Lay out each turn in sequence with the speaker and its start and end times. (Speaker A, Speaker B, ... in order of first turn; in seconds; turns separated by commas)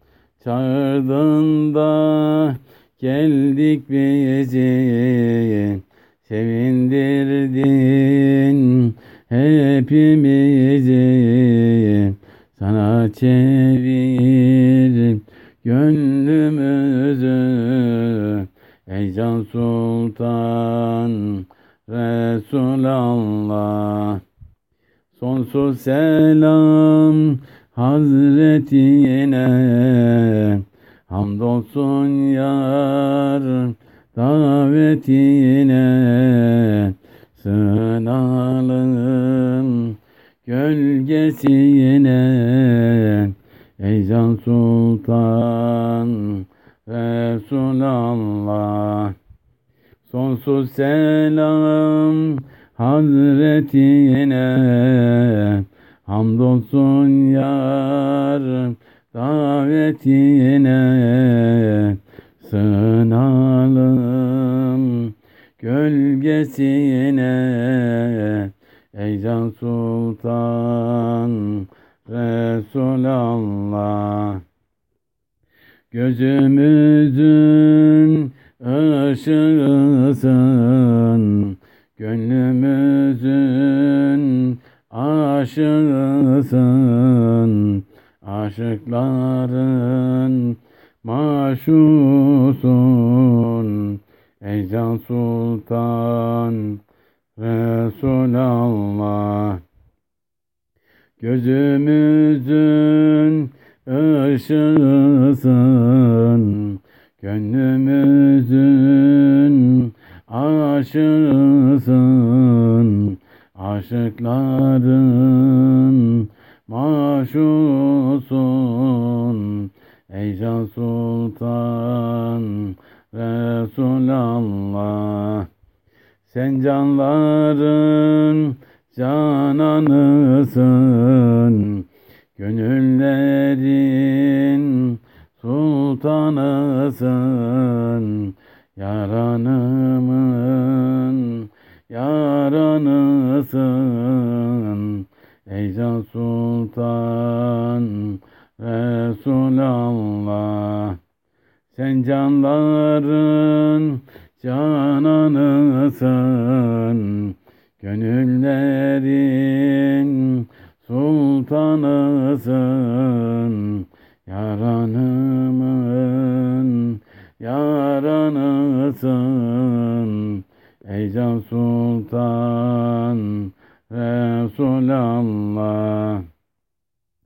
Speaker A: 0.4-24.2, Speaker A: 25.1-49.1, Speaker A: 50.0-74.4, Speaker A: 75.9-96.8, Speaker A: 97.4-99.6, Speaker A: 101.2-125.5, Speaker A: 126.2-151.0, Speaker A: 151.7-176.2